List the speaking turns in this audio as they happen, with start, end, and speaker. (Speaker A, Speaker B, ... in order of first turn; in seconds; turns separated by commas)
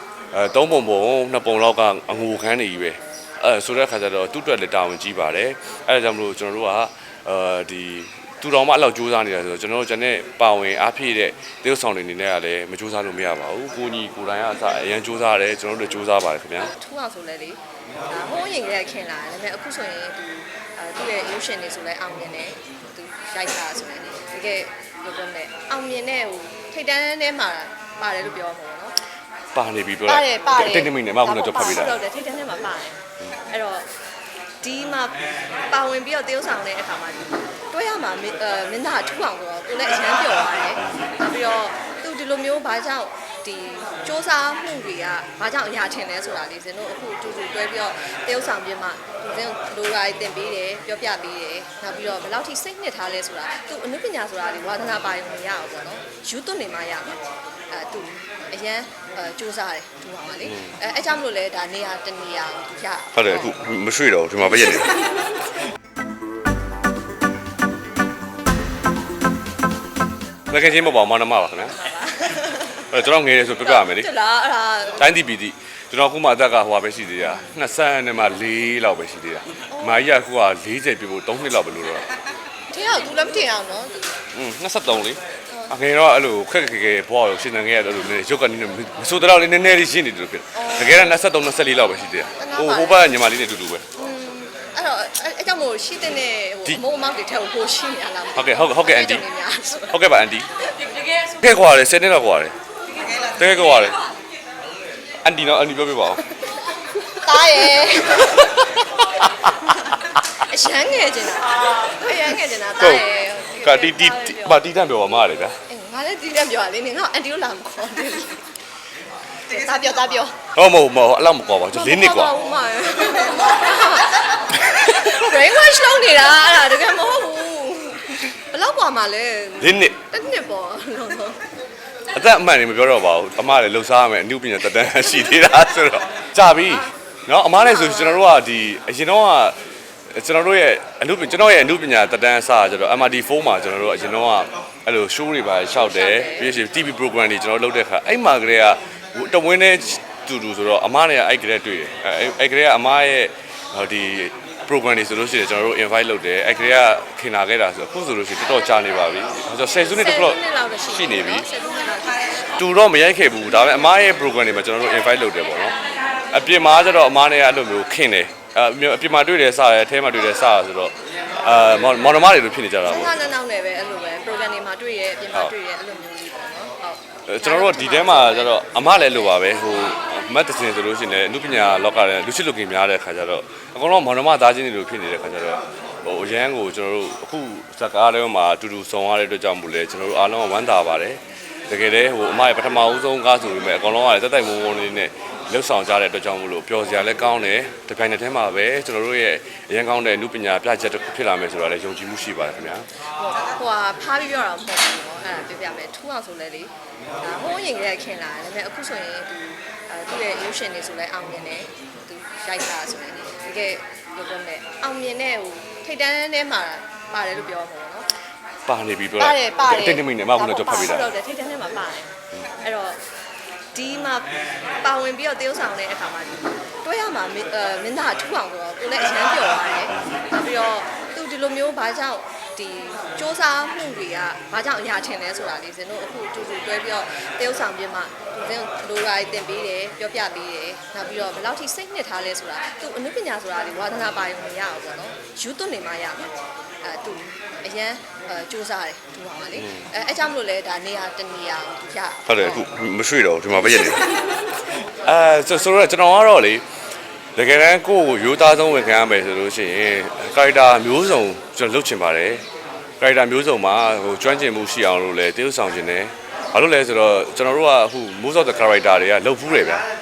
Speaker A: 0.3-16.7, Speaker B: 16.8-28.9, Speaker A: 29.6-32.0, Speaker B: 30.1-33.9, Speaker B: 34.6-57.2, Speaker A: 40.8-41.1, Speaker B: 57.7-63.5, Speaker A: 63.1-65.1, Speaker B: 64.5-65.2, Speaker A: 70.5-71.8, Speaker B: 71.7-72.9, Speaker A: 72.9-74.1, Speaker B: 73.5-75.1, Speaker A: 75.0-82.1, Speaker B: 79.7-80.1, Speaker B: 82.7-84.1, Speaker A: 84.3-93.8, Speaker B: 90.5-91.1, Speaker B: 92.4-93.1, Speaker B: 94.0-100.0, Speaker A: 98.3-99.2, Speaker A: 99.9-100.5, Speaker A: 101.2-102.5, Speaker A: 103.3-104.0, Speaker A: 105.2-106.2, Speaker B: 106.5-108.9, Speaker A: 108.4-109.9, Speaker B: 110.5-114.6, Speaker A: 112.8-113.0, Speaker A: 113.6-115.6, Speaker B: 115.7-118.5, Speaker B: 119.5-120.4, Speaker A: 120.5-122.4, Speaker B: 121.7-131.5, Speaker A: 129.6-130.0, Speaker A: 132.1-139.6, Speaker B: 137.6-138.3, Speaker A: 140.1-161.4, Speaker B: 145.8-146.5, Speaker B: 159.8-162.5, Speaker A: 162.6-165.8, Speaker A: 166.3-173.1, Speaker B: 172.8-178.6, Speaker A: 177.3-202.9, Speaker B: 203.2-218.1, Speaker A: 218.7-221.1, Speaker B: 219.2-223.0, Speaker B: 223.7-246.3, Speaker B: 246.8-252.7, Speaker A: 252.3-256.6, Speaker B: 253.6-254.3, Speaker A: 257.4-262.4, Speaker A: 263.0-269.8